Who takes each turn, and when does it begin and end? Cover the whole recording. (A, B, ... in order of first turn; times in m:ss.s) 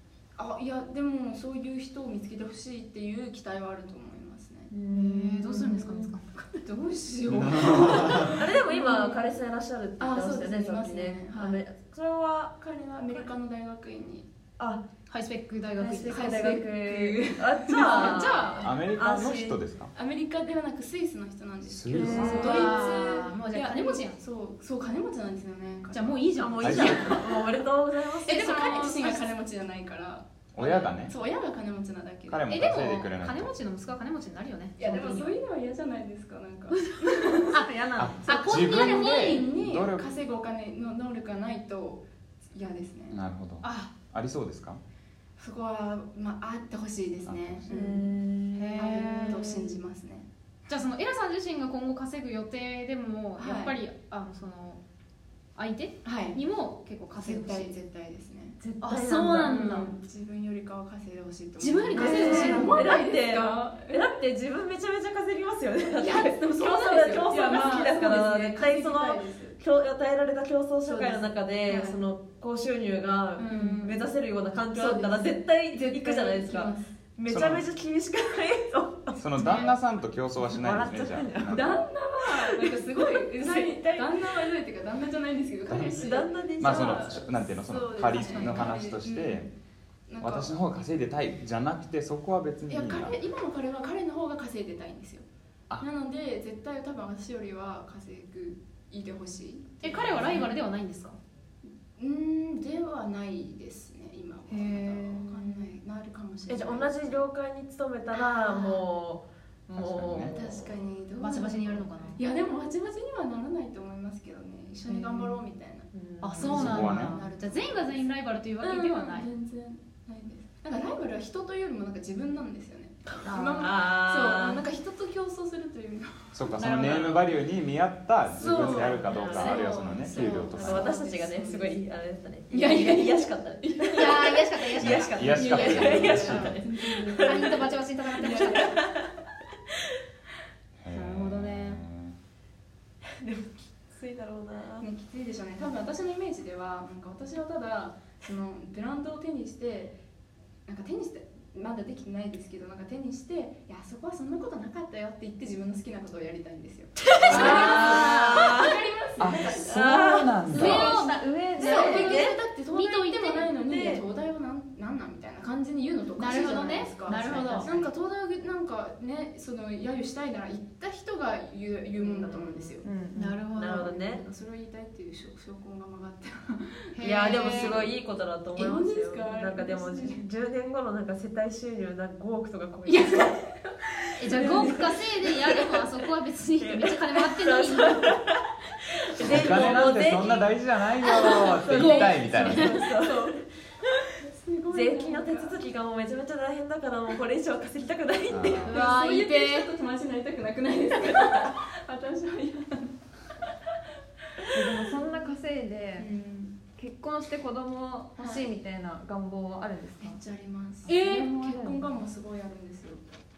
0:00.4-0:04.7 A
0:04.7-0:06.1 B
0:04.9-0:06.2 C
0:06.4-0:09.4 A
0:07.3-0:08.4 D
0:07.6-0:13.3 B
0:10.0-0:11.6 A
0:12.6-0:14.3 A
0:14.6-0:14.8 B
0:15.1-0:16.3 C
0:15.8-0:19.6 B
0:16.1-0:18.4 A
0:17.7-0:18.7 C
0:18.6-0:19.9 D
0:19.9-0:27.2 A
0:21.6-0:22.7 D
0:21.9-0:23.2 B
0:22.2-0:24.2 C
0:25.9-0:27.3 C
0:26.4-0:28.6 B
0:26.6-0:27.2 D
0:28.2-0:32.5 A
0:28.2-0:29.3 C
0:30.5-0:31.1 D
0:32.3-0:33.5 D
0:32.5-0:35.3 C
0:34.8-0:37.6 A
0:36.7-0:39.5 C
0:38.0-0:40.1 D
0:38.3-0:43.2 A
0:43.1-0:44.8 D
0:43.6-0:43.9 C
0:45.4-0:48.1 A
0:47.2-0:47.6 D
0:47.7-0:49.8 B
0:48.5-0:49.4 C
0:48.8-0:50.3 A
0:50.7-0:54.8 C
0:53.4-0:53.8 A
0:55.6-0:57.7 C
0:56.0-0:56.4 A
0:57.2-0:58.6 A
0:58.6-0:59.9 B
0:58.8-0:59.9 C
0:59.4-1:04.0 A
1:01.6-1:02.7 C
1:01.9-1:19.2 B
1:06.0-1:09.6 A
1:10.8-1:12.0 A
1:13.4-1:14.0 A
1:14.7-1:16.9 A
1:17.3-1:17.6 D
1:19.2-1:21.6 D
1:19.4-1:19.7 C
1:19.4-1:19.7 A
1:20.6-1:21.6 E
1:20.7-1:21.6 B
1:21.4-1:29.5 A
1:22.5-1:24.3 B
1:25.7-1:29.5 D
1:25.7-1:27.2 B
1:28.1-1:28.7 C
1:30.1-1:30.5 A
1:30.2-1:33.2 D
1:32.7-1:35.2 A
1:35.8-1:40.5 A
1:39.8-1:41.2 C
1:42.0-1:47.2 A
1:44.5-1:45.3 C
1:46.5-1:50.7 B
1:48.1-1:48.8 A
1:49.7-1:50.4 D
1:50.2-2:06.5 A
1:51.2-1:52.2 C
1:54.9-1:55.4 C
1:55.9-1:56.9 B
1:56.2-1:59.3 C
1:56.4-1:57.2 D
2:03.1-2:04.6 B
2:03.3-2:03.6 C
2:06.3-2:11.0 D
2:06.5-2:07.3 C
2:08.4-2:11.8 A
2:08.4-2:19.1 B
2:12.5-2:14.4 A
2:13.9-2:15.9 C
2:14.8-2:16.6 D
2:15.2-2:17.6 A
2:17.2-2:18.8 C
2:18.2-2:18.8 A
2:20.8-2:22.2 D
2:20.9-2:21.8 C
2:23.1-2:24.8 B
2:24.8-2:30.0 A
2:30.6-2:41.0 A
2:37.1-2:38.8 B
2:37.3-2:38.6 C
2:39.2-2:40.9 D
2:39.3-2:42.4 B
2:40.5-2:42.0 E
2:40.5-2:43.6 C
2:41.6-2:52.8 A
2:43.6-2:44.0 B
2:46.2-2:47.7 C
2:47.5-2:47.9 B
2:52.0-2:54.2 B
2:53.1-2:53.9 C
2:53.6-2:57.9 A
2:56.9-2:57.8 C
2:57.0-3:03.5 B
2:58.5-3:00.2 A
3:02.8-3:03.6 A
3:04.2-3:08.2 C
3:04.2-3:05.8 B
3:04.3-3:04.9 A
3:06.6-3:08.4 B
3:09.1-3:14.0 B
3:09.2-3:12.8 D
3:11.7-3:12.7 C
3:12.8-3:13.4 A
3:14.2-3:15.6 A
3:14.7-3:18.8 B
3:18.3-3:18.8 D
3:18.6-3:19.7 C
3:18.6-3:23.5 A
3:24.5-3:26.1 E
3:24.6-3:25.2 A
3:26.0-3:26.6 A
3:26.7-3:30.2 E
3:28.2-3:28.5 A
3:30.0-3:33.0 A
3:30.9-3:31.2 C
3:30.9-3:31.9 E